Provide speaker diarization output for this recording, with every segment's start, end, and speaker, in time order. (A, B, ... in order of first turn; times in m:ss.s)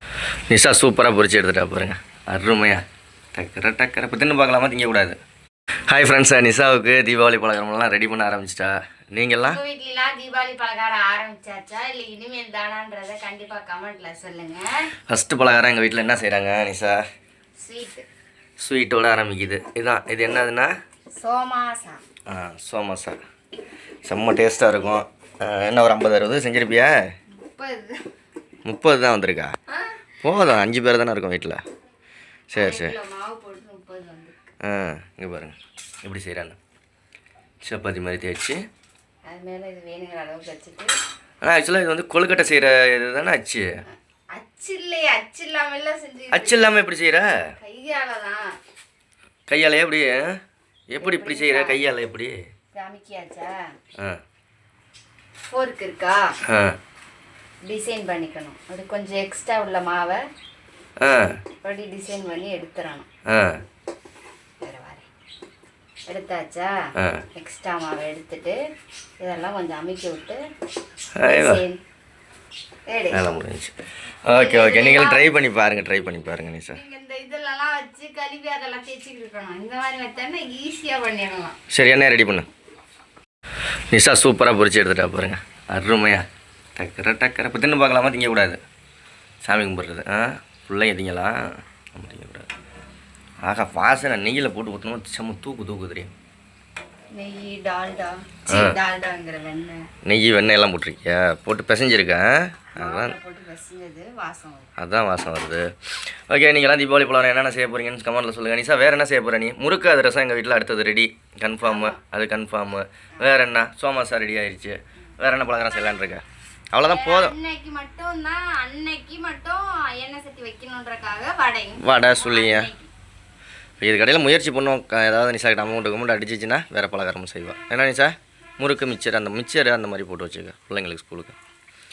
0:00.5-0:02.8 A
0:03.3-0:05.2 A
0:05.9-0:09.6 A
0:09.5-0:14.9 B
0:15.1-0:17.0 A
0:17.6-0:18.1 B
0:18.6-0:20.7 A
0:21.1-0:22.0 B
0:22.3-0:23.2 A
0:24.0-0:27.0 A
0:27.3-0:28.0 B
0:28.6-0:29.5 A
0:29.7-0:30.0 B
0:30.2-0:31.6 A
0:32.5-0:32.9 A
0:32.5-0:34.5 B
0:34.6-0:36.6 A
0:37.6-0:38.6 A
0:39.3-0:40.9 B
0:41.4-0:43.7 A
0:43.8-0:46.8 B
0:46.3-0:47.5 A
0:47.6-0:48.5 B
0:49.5-0:50.4 A
0:50.9-0:52.4 A
0:51.0-0:51.8 B
0:52.7-0:53.7 B
0:55.5-0:56.2 B
0:56.5-0:56.8 A
0:57.6-1:00.2 B
1:01.0-1:01.4 A
1:01.6-1:03.1 B
1:03.3-1:03.6 A
1:04.6-1:05.1 B
1:06.1-1:06.8 B
1:07.0-1:07.2 A
1:07.3-1:08.6 B
1:09.2-1:10.4 B
1:11.2-1:11.6 A
1:11.3-1:11.8 B
1:12.9-1:13.2 B
1:13.1-1:13.7 A
1:14.2-1:16.8 A
1:14.3-1:15.4 B
1:16.6-1:21.6 B
1:21.7-1:22.5 A
1:23.9-1:26.2 A
1:26.8-1:28.6 A
1:29.4-1:32.5 A
1:33.4-1:36.1 A
1:37.1-1:39.9 B
1:38.5-1:38.7 A
1:40.0-1:43.1 A
1:42.7-1:44.7 B
1:44.8-1:57.3 A
1:51.6-1:52.0 B
1:56.8-2:02.9 B
2:01.8-2:02.7 A
2:03.8-2:11.4 A